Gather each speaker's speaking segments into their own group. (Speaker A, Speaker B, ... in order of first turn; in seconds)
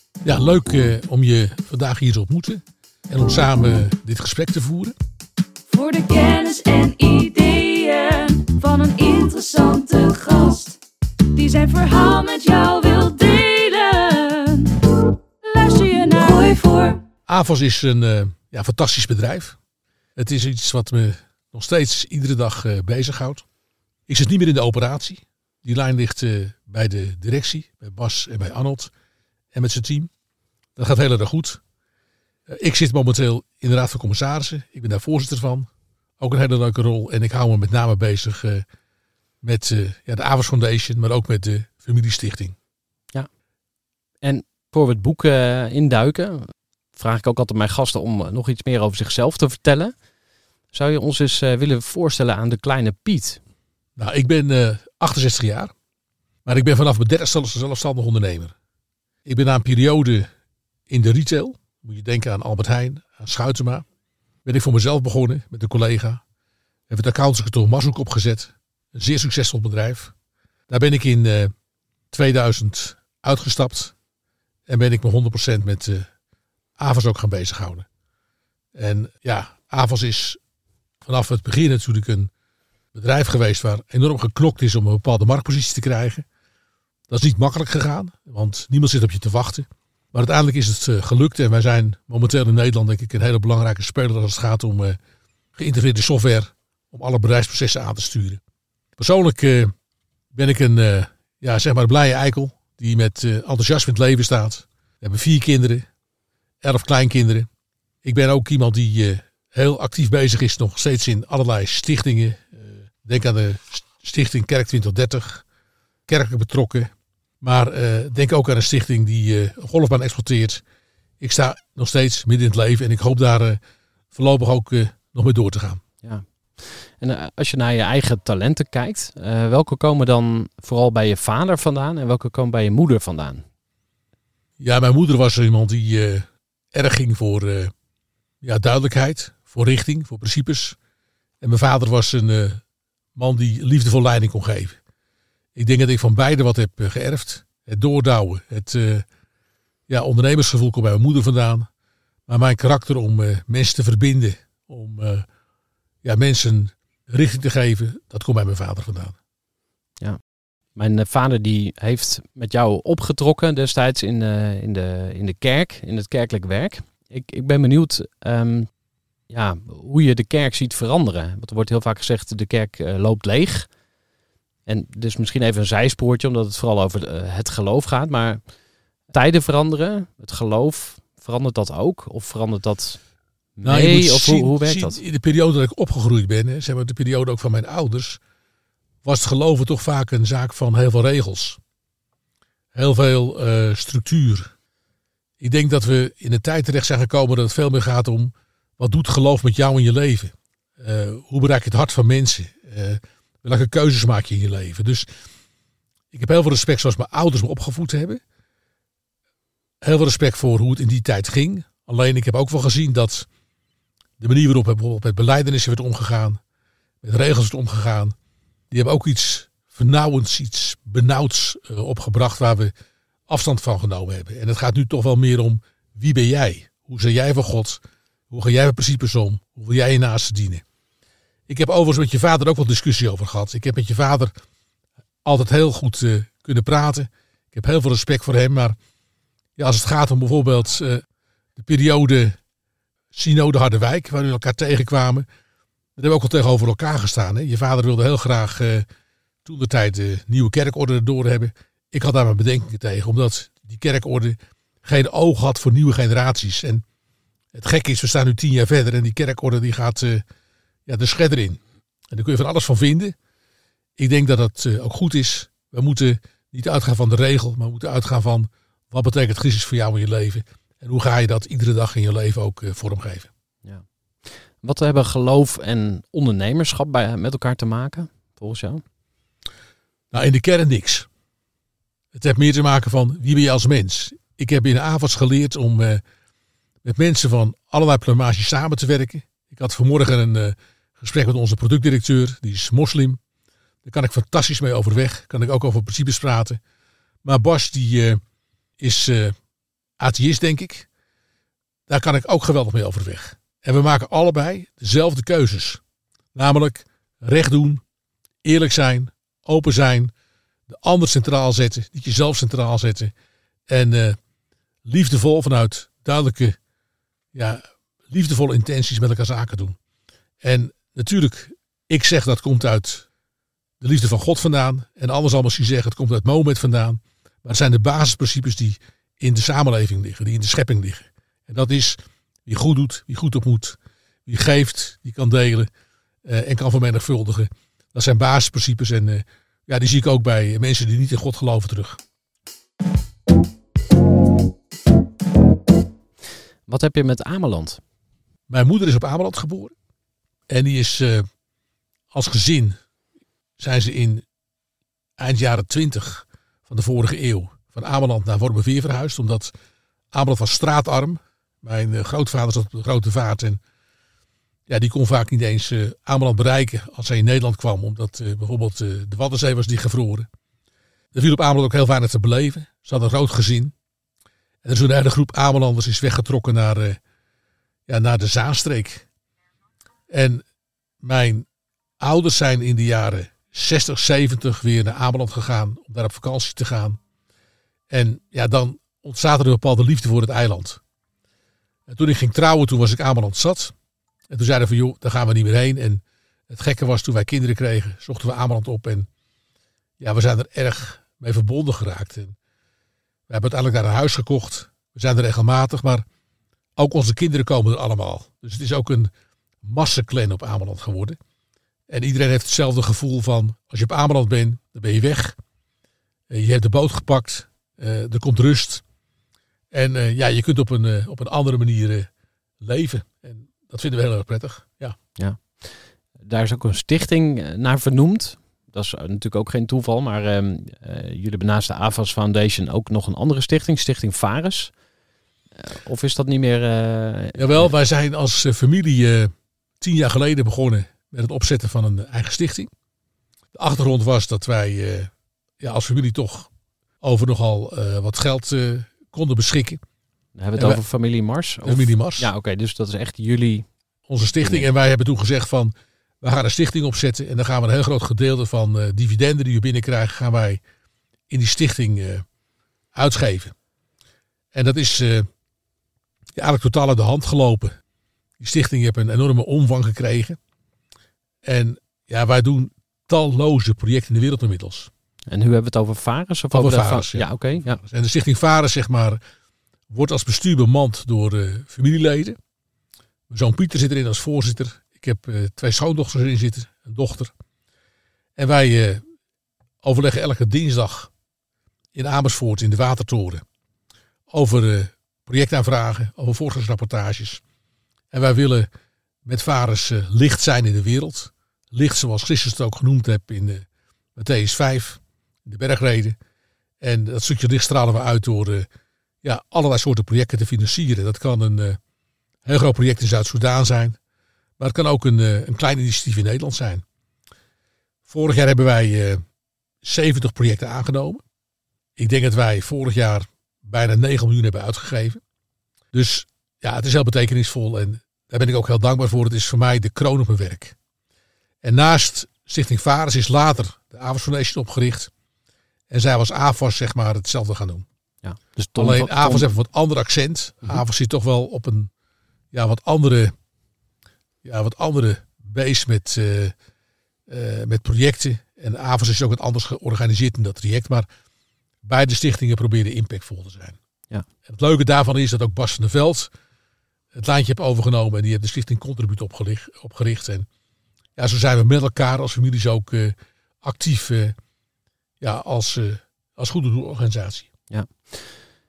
Speaker A: 0.2-4.9, 17.3-19.6, 20.1-23.4, 24.1-28.9, 29.5-30.1, 30.8-31.6, 32.5-35.7, 36.2-38.6, 39.4-42.5, 54.0-55.7, 56.4-58.5, 59.2-60.3, 60.9-63.8, 64.4-66.2, 66.9-70.1, 70.7-71.5, 72.1-73.9, 74.7-76.1, 76.8-77.9, 78.7-80.4, 81.0-82.3, 82.9-86.2, 87.1-95.0, 95.5-98.4, 99.0-99.7, 100.3-105.9, 106.6-107.5, 108.0-115.4, 116.1-120.6, 121.2-123.6, 124.1-125.8, 134.6-137.7, 138.4-140.8, 141.4-142.6, 143.1-144.8, 145.5-149.0, 149.9-151.7, 152.3-155.2, 156.0-159.2, 183.6-188.2, 189.0-191.6, 192.7-194.5, 195.4-205.1, 206.1-208.2, 209.8-213.3, 214.2-216.4, 217.0-218.1, 218.7-222.7, 223.3-230.6, 231.5-234.3, 235.2-238.8, 239.6-241.0, 241.6-242.4, 243.1-245.2, 246.0-248.8, 249.4-256.8, 257.5-260.2, 260.9-263.1, 264.0-273.3, 280.1-281.1, 282.1-286.0, 286.8-293.2, 293.8-296.6, 297.2-298.2, 298.8-299.4, 300.0-300.9, 301.9-305.8, 306.3-307.8, 308.4-310.1, 310.7-313.1, 313.7-314.2, 314.8-316.6, 317.3-319.8, 320.4-323.1, 323.8-335.7, 336.2-342.0, 348.5-349.7, 350.5-351.3, 352.1-352.8, 353.6-354.2, 355.2-359.5, 360.1-363.6, 364.7-370.3, 371.1-373.7, 374.6-377.0, 377.9-379.1, 380.1-380.4, 381.0-381.4, 382.0-387.0, 387.9-390.8, 391.9-393.7, 394.3-399.1, 400.0-402.3, 403.3-406.0, 406.8-409.1, 409.6-411.2, 411.9-415.4, 416.3-418.8, 419.7-422.1, 422.6-425.0, 437.3-442.7, 443.5-446.5, 447.0-449.8, 451.6-452.3, 454.1-460.6, 461.3-462.2, 462.9-463.5, 464.5-465.3, 466.3-467.8, 468.4-470.4, 471.4-474.9, 476.5-479.2, 479.9-482.4, 483.3-487.3, 488.4-489.0, 489.8-491.1, 491.9-493.4, 494.3-497.4, 498.1-498.7, 499.2-506.2, 506.8-508.7, 509.2-511.8, 512.4-514.0, 514.6-516.8, 518.0-519.2, 519.8-521.2, 522.0-525.2, 525.9-530.8, 531.6-535.1, 535.9-537.9, 538.8-541.9, 542.5-543.3, 544.4-546.5, 547.3-551.1, 551.8-553.8, 554.4-556.3, 557.1-560.5, 561.1-564.3, 565.2-567.5
Speaker B: 5.7-10.8, 11.3-17.0
Speaker C: 44.2-49.9, 50.7-53.4, 126.0-133.4, 160.8-168.7, 169.3-173.7, 174.7-178.4, 179.1-183.0, 183.6-185.0, 274.6-278.8, 346.7-347.8, 425.2-434.7, 435.6-437.7, 450.4-453.7, 454.4-454.7, 475.3-477.8, 538.2-539.5, 567.7-568.4